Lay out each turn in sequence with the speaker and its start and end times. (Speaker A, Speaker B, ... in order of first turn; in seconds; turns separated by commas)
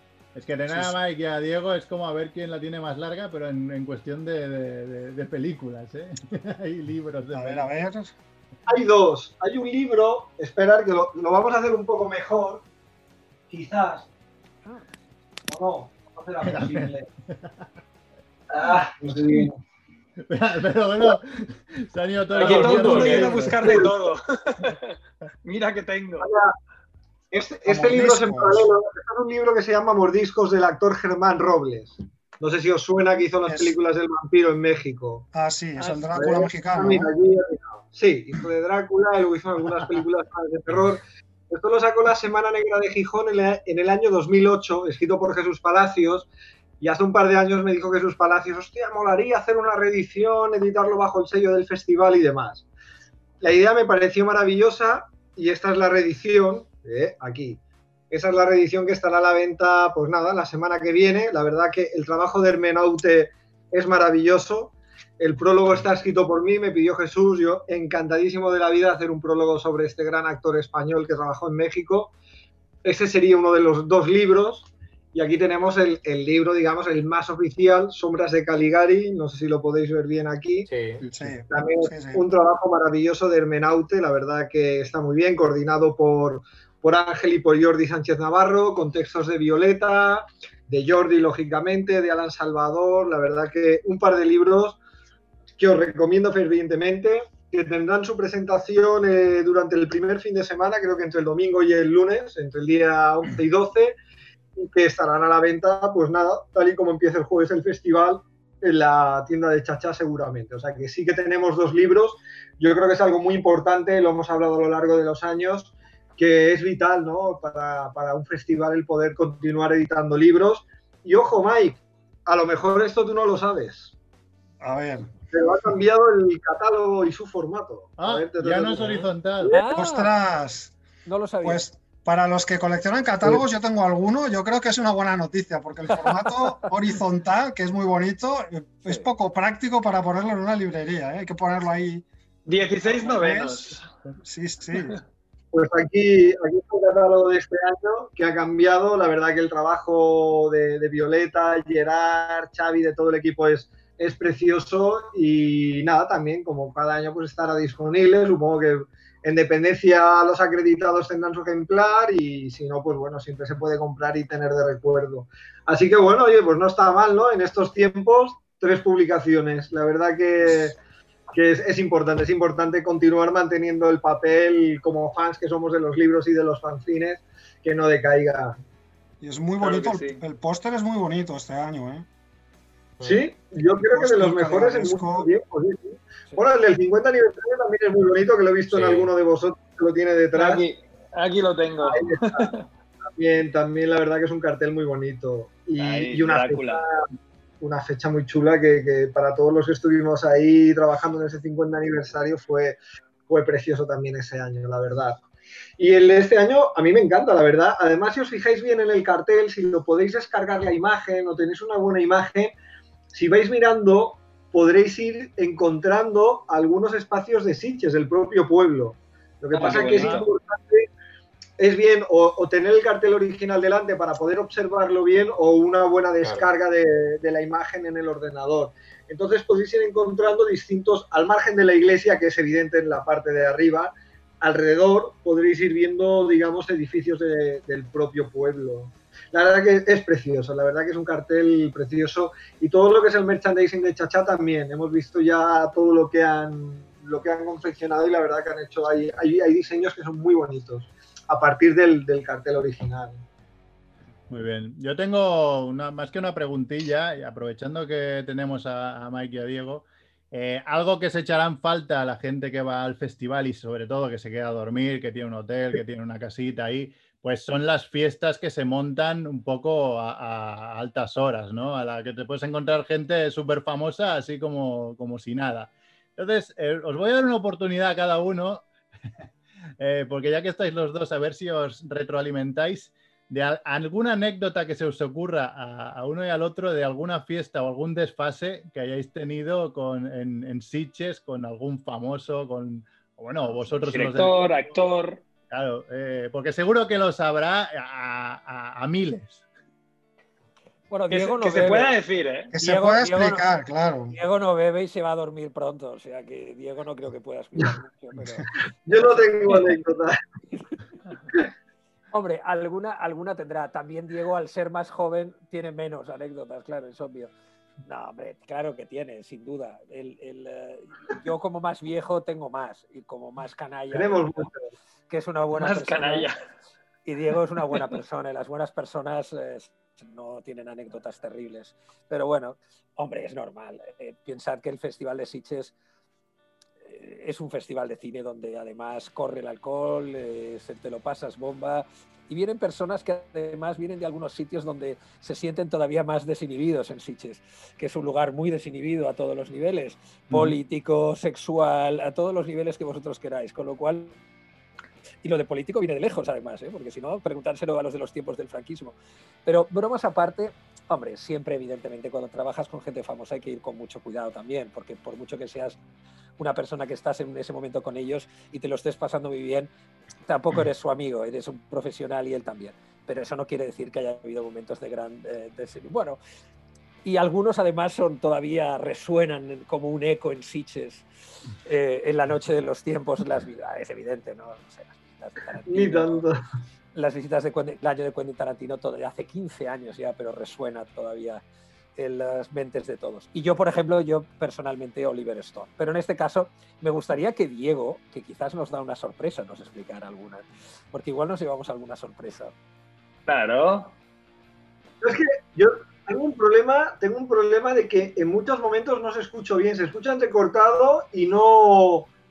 Speaker A: 0.3-7.7, Speaker B: 0.7-0.9, Speaker B: 7.3-8.1, Speaker C: 8.7-12.6, Speaker C: 13.5-14.1, Speaker C: 15.5-17.1, Speaker A: 16.4-17.5, Speaker C: 18.5-19.6, Speaker A: 19.1-19.5, Speaker A: 20.2-23.7, Speaker D: 22.3-23.5, Speaker E: 22.3-24.8, Speaker C: 23.1-23.9, Speaker E: 25.4-26.3, Speaker C: 26.2-26.5, Speaker C: 27.3-35.3, Speaker B: 27.7-28.7, Speaker B: 33.5-33.8, Speaker B: 35.3-37.1, Speaker E: 35.8-36.1, Speaker C: 36.1-46.3, Speaker C: 46.8-52.7, Speaker C: 53.4-57.6, Speaker C: 58.1-72.1, Speaker C: 72.8-80.7, Speaker D: 80.7-81.0, Speaker B: 81.0-82.2, Speaker C: 81.2-94.8, Speaker C: 95.6-104.0, Speaker C: 104.6-123.9, Speaker B: 124.6-125.1, Speaker C: 125.3-129.5, Speaker A: 128.0-129.6, Speaker F: 129.5-130.1, Speaker B: 129.7-130.8, Speaker F: 131.1-131.7, Speaker B: 131.4-142.1, Speaker F: 135.9-136.5, Speaker E: 142.5-143.9, Speaker B: 142.7-145.0, Speaker C: 145.5-170.8, Speaker B: 170.4-170.7, Speaker C: 171.3-178.6, Speaker B: 179.2-182.1, Speaker E: 179.6-180.2, Speaker D: 183.0-183.3, Speaker C: 183.0-190.6, Speaker B: 183.9-185.3, Speaker D: 188.7-189.1, Speaker E: 190.3-192.7, Speaker C: 191.8-192.5, Speaker C: 193.2-197.0, Speaker E: 195.8-196.8, Speaker C: 197.6-205.2, Speaker C: 205.8-212.6, Speaker C: 213.1-220.9, Speaker E: 219.5-220.3, Speaker A: 219.7-220.2, Speaker C: 221.6-253.2, Speaker D: 226.2-226.5, Speaker A: 254.3-278.7, Speaker A: 279.8-294.6, Speaker E: 293.8-295.2, Speaker A: 295.5-299.4, Speaker F: 300.9-301.9, Speaker E: 301.1-302.5, Speaker B: 302.6-304.2, Speaker F: 302.6-303.4, Speaker F: 304.1-309.2, Speaker C: 308.9-310.2, Speaker F: 312.1-317.3, Speaker F: 317.8-324.5, Speaker C: 323.9-324.7, Speaker F: 325.1-326.3, Speaker E: 325.5-326.4, Speaker F: 327.1-335.7, Speaker F: 336.9-354.1, Speaker A: 350.3-350.6, Speaker F: 355.2-365.8, Speaker F: 366.4-369.7, Speaker F: 370.3-376.2, Speaker F: 377.0-381.1, Speaker F: 381.6-386.2, Speaker C: 385.7-386.4, Speaker F: 386.9-391.4, Speaker F: 392.0-402.5, Speaker E: 403.3-403.9, Speaker C: 405.0-412.1